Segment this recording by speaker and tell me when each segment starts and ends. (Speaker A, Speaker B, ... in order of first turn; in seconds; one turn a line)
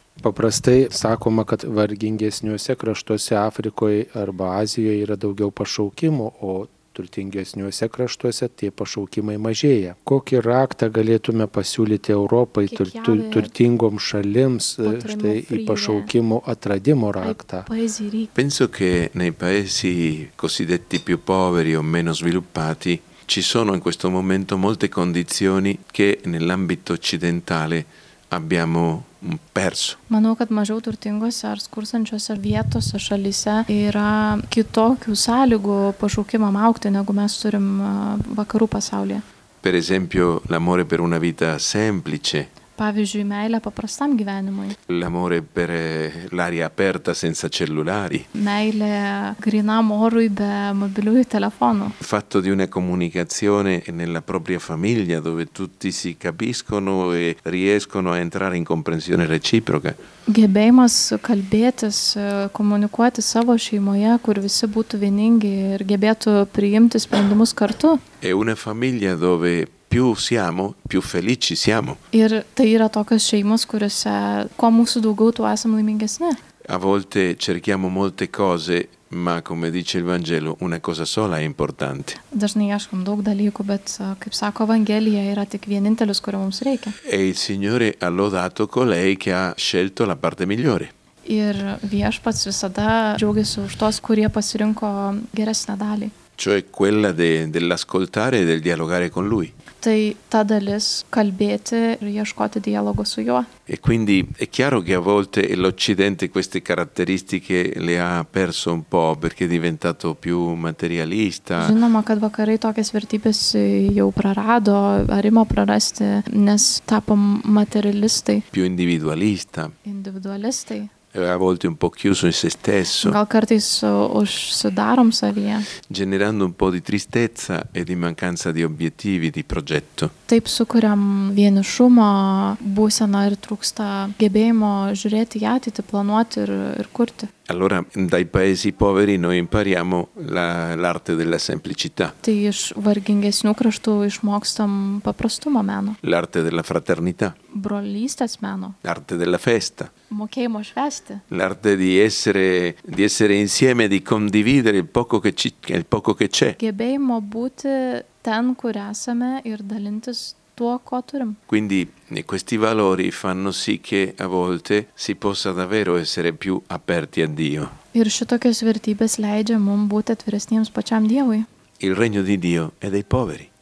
Speaker A: 0.2-17.7
Speaker B: 12.7-13.5
Speaker B: 14.8-16.1
Speaker B: 17.2-18.3
Speaker C: 18.4-30.0
Speaker B: 30.1-39.2
Speaker C: 39.6-42.5
Speaker B: 42.8-44.8
Speaker C: 44.9-48.3
Speaker B: 48.3-52.0
Speaker C: 52.0-60.0
Speaker B: 60.3-68.0
Speaker C: 68.2-72.0
Speaker B: 72.1-76.4
Speaker C: 76.7-82.2
Speaker B: 82.3-86.9
Speaker C: 87.0-90.9
Speaker B: 91.2-96.1
Speaker C: 96.4-99.5
Speaker B: 99.8-103.5
Speaker C: 103.7-111.8
Speaker B: 111.6-118.4
Speaker C: 118.5-119.7
Speaker B: 119.8-120.9
Speaker C: 121.1-123.2
Speaker B: 123.0-125.7
Speaker C: 125.8-130.1
Speaker B: 130.3-137.3
Speaker C: 137.5-142.1
Speaker B: 142.2-146.0
Speaker C: 146.0-147.4
Speaker B: 147.5-148.8
Speaker C: 148.8-149.9
Speaker B: 150.1-151.2
Speaker C: 151.3-156.6
Speaker B: 156.6-161.4
Speaker C: 161.5-167.8
Speaker B: 167.9-171.5
Speaker C: 171.8-173.5